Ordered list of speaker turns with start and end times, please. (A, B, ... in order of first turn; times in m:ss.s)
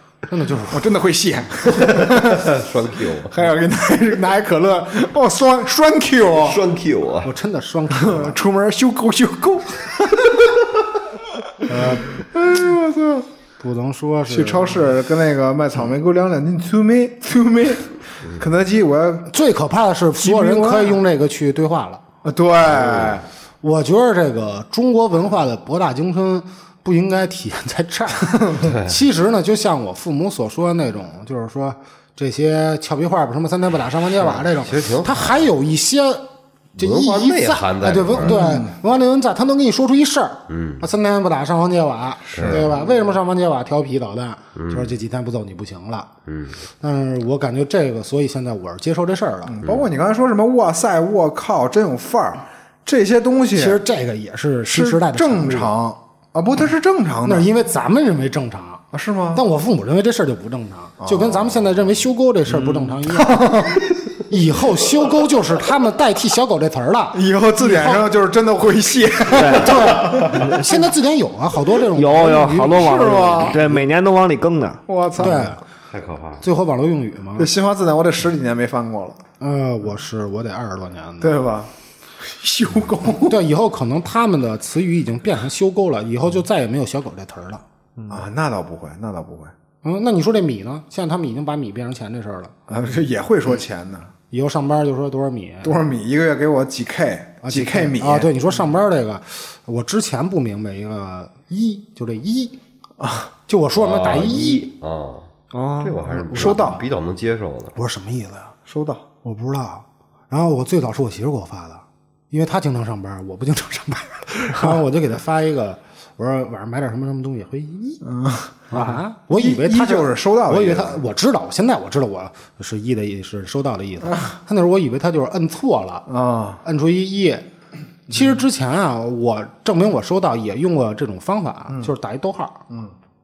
0:00.3-0:00.9 A
0:00.7-0:02.6 B
0:01.8-0:03.5 C
0:03.3-0:06.6 B
0:06.4-0:07.3 C
0:07.2-0:08.4 A
0:08.0-0:10.5 B
0:11.6-0:13.3 B
0:13.6-0:14.8 A
0:14.3-0:19.3 B
0:19.3-0:22.0 A
0:20.2-0:21.0 B
0:22.2-0:23.3 B
0:22.8-0:23.2 C
0:23.6-0:36.2 A
0:28.6-0:29.0 C
0:34.2-0:35.5 C
0:36.8-0:46.1 A
0:36.8-0:38.4 C
0:38.2-0:38.7 B
0:40.5-0:40.8 C
0:42.3-0:42.8 B
0:42.4-0:42.7 C
0:44.6-0:45.0 C
0:46.3-0:46.6 C
0:46.8-0:49.6 A
0:49.5-0:53.8 B
0:53.6-0:55.7 A
0:54.7-0:57.5 B
0:57.2-1:03.6 A
0:58.9-0:59.4 B
1:01.0-1:01.5 B
1:02.5-1:02.9 D
1:03.0-1:04.0 B
1:04.3-1:08.0 A
1:07.1-1:10.4 B
1:09.3-1:10.6 D
1:09.4-1:13.8 A
1:11.9-1:14.8 D
1:12.7-1:13.8 B
1:14.9-1:15.6 B
1:15.2-1:15.6 A
1:15.9-1:16.4 C
1:16.4-1:17.5 A
1:17.4-1:19.2 B
1:19.4-1:21.4 A
1:21.2-1:23.4 B
1:23.2-1:27.6 A
1:28.1-1:29.5 B
1:29.8-1:32.5 A
1:32.7-1:34.1 B
1:34.3-1:35.8 A
1:35.6-1:38.3 B
1:37.4-1:42.6 A
1:43.0-1:43.3 B
1:43.5-1:44.7 A
1:43.8-1:45.3 C
1:45.5-1:46.2 D
1:45.8-1:47.7 C
1:46.3-1:46.8 A
1:46.3-1:46.8 B
1:47.8-1:48.5 A
1:48.7-1:49.0 B
1:49.2-1:58.0 A
1:58.0-2:01.0 B
1:58.7-2:06.1 A
2:06.1-2:06.6 B
2:06.6-2:07.5 A
2:08.1-2:12.7 A